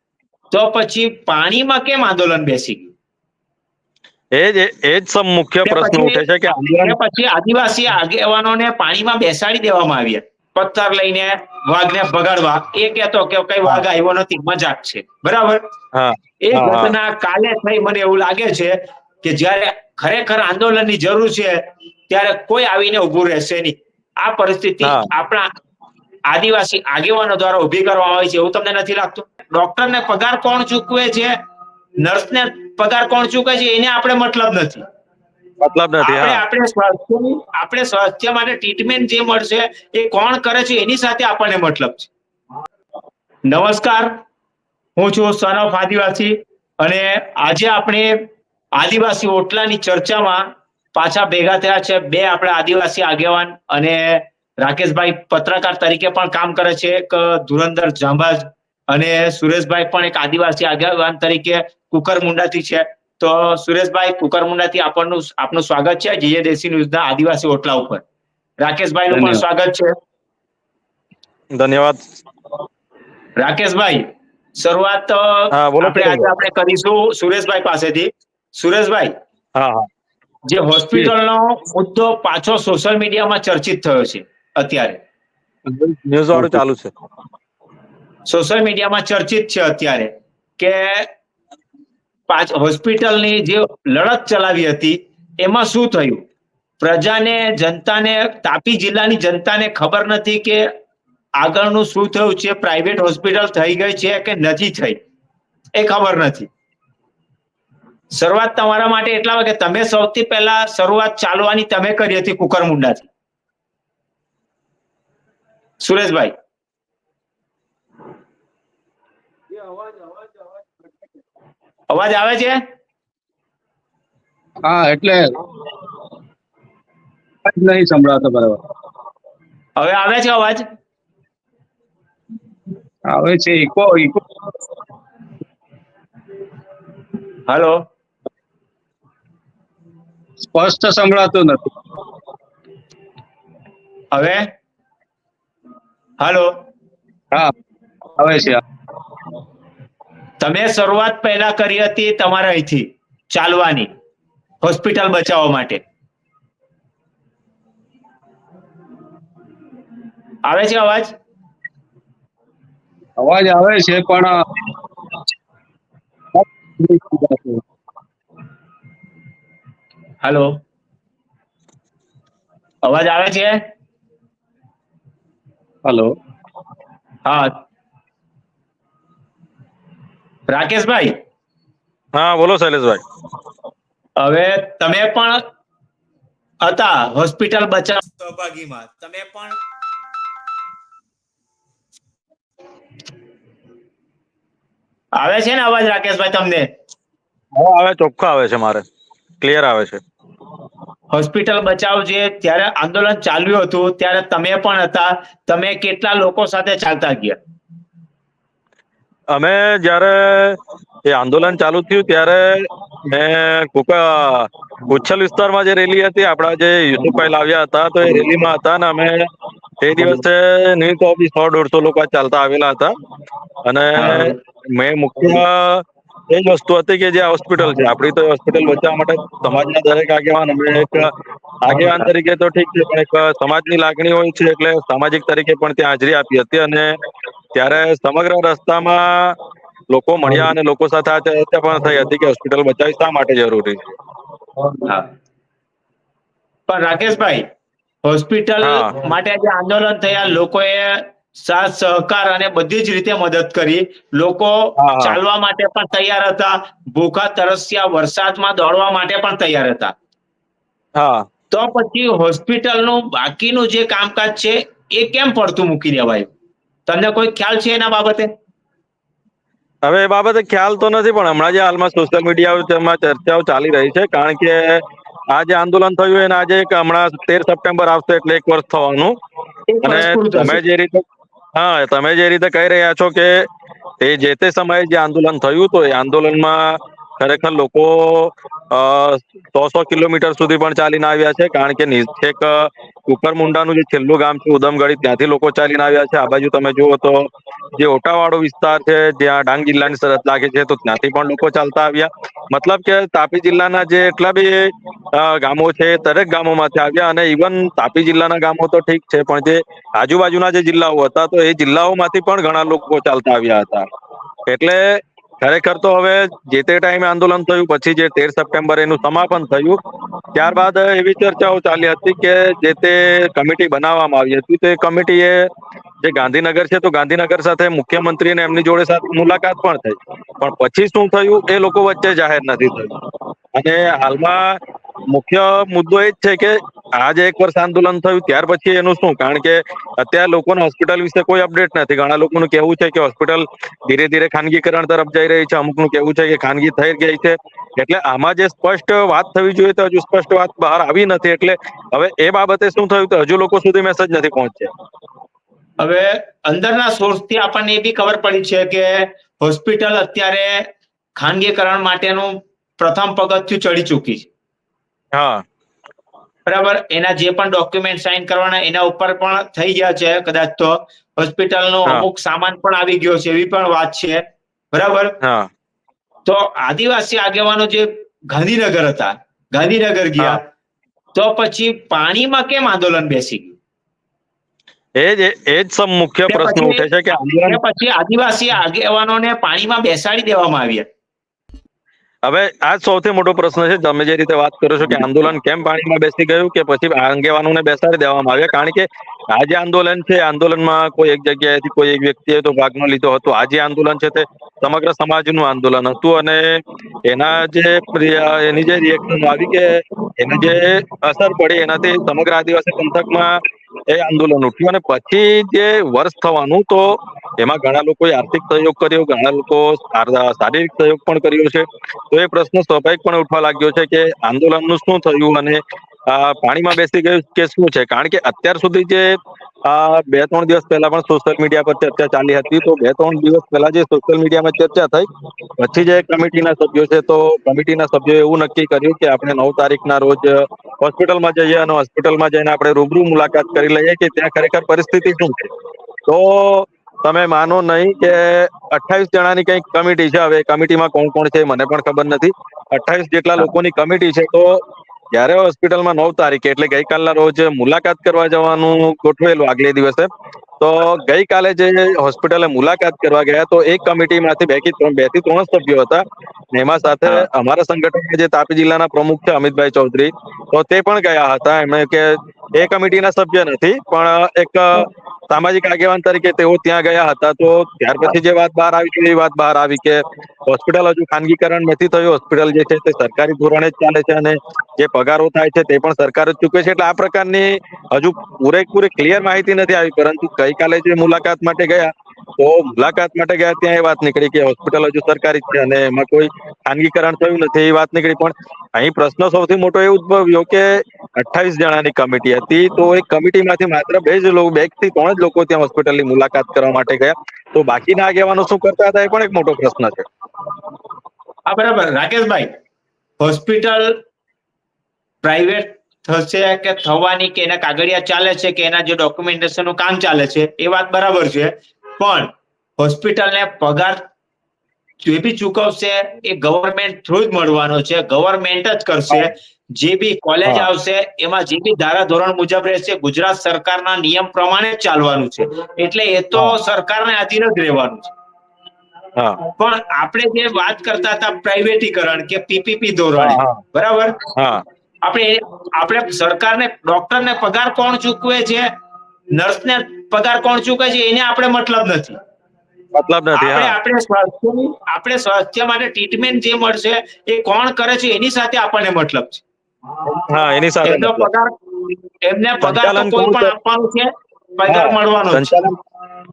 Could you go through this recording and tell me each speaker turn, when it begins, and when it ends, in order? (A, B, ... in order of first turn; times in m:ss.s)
0:00.5-0:02.9 A
0:04.4-0:07.0 B
0:05.6-0:15.6 A
0:15.9-0:17.0 B
0:16.4-0:25.5 A
0:24.8-0:25.1 B
0:26.3-0:31.3 A
0:32.0-0:34.8 A
0:35.6-0:36.4 B
0:36.0-0:42.1 A
0:43.5-0:44.1 A
0:45.0-0:48.2 A
0:48.8-0:50.4 A
0:51.0-1:08.0 A
1:08.6-1:09.9 A
1:09.1-1:09.4 C
1:11.6-1:12.0 B
1:13.4-1:14.0 A
1:14.6-1:19.1 A
1:15.5-1:16.3 B
1:19.6-1:19.9 B
1:20.5-1:25.0 A
1:25.7-1:26.9 B
1:28.3-1:31.1 A
1:32.3-1:36.2 A
1:36.8-1:40.7 A
1:41.4-1:45.0 A
1:45.8-1:46.5 A
1:48.2-1:53.1 A
1:55.8-1:56.3 A
2:01.9-2:02.6 A
2:04.6-2:05.4 C
2:07.5-2:08.6 C
2:09.8-2:10.6 A
2:13.1-2:14.2 C
2:17.5-2:17.8 A
2:20.4-2:21.7 C
2:24.1-2:24.5 A
2:26.2-2:26.5 A
2:28.2-2:28.6 C
2:30.4-2:33.9 A
2:34.6-2:35.8 A
2:40.5-2:41.1 A
2:43.2-2:44.5 C
2:46.4-2:47.6 C
2:50.2-2:50.5 A
2:52.8-2:53.6 A
2:55.8-2:56.2 C
2:57.2-2:57.5 A
3:00.5-3:01.2 A
3:02.2-3:03.0 B
3:04.2-3:05.4 A
3:06.6-3:09.6 A
3:15.2-3:16.7 A
3:17.6-3:18.8 B
3:19.4-3:20.0 B
3:21.1-3:27.4 A
3:29.3-3:39.3 B
3:39.8-3:42.9 B
3:43.6-3:51.1 B
3:51.6-3:56.9 B
3:57.5-3:59.4 B
3:59.9-4:03.9 B
4:06.7-4:07.4 A
4:08.0-4:19.9 A
4:08.6-4:08.9 B
4:14.8-4:15.2 B
4:21.0-4:21.3 B
4:21.5-4:26.3 A
4:26.9-4:28.3 A
4:29.8-4:39.2 B
4:39.7-4:40.6 A
4:39.8-4:43.5 B
4:44.0-5:13.9 B
5:14.5-5:19.8 B
5:20.3-5:25.5 B
5:26.0-5:32.9 B
5:33.6-5:34.6 B
5:35.1-5:54.7 B
5:55.8-6:00.6 A
6:01.2-6:04.3 A
6:05.1-6:05.4 B
6:06.5-6:15.2 A
6:15.2-6:15.5 B
6:16.3-6:20.4 A
6:21.2-6:23.6 A
6:25.0-6:27.6 B
6:26.3-6:30.8 A
6:32.2-7:15.1 B
7:15.6-7:25.5 B
7:26.1-7:34.6 B
7:35.1-7:40.1 B
7:40.6-8:30.1 B
8:31.5-8:32.5 A
8:33.2-8:34.0 A
8:35.2-8:44.0 A
8:45.0-8:58.1 A
8:59.6-9:04.2 A
9:03.2-9:03.6 B
9:04.4-9:04.6 B
9:05.0-9:08.7 A
9:09.3-9:12.2 A
9:13.0-9:13.8 B
9:13.4-9:19.4 A
9:20.0-9:21.3 B
9:20.8-9:25.5 A
9:22.6-9:23.5 B
9:24.7-9:25.8 B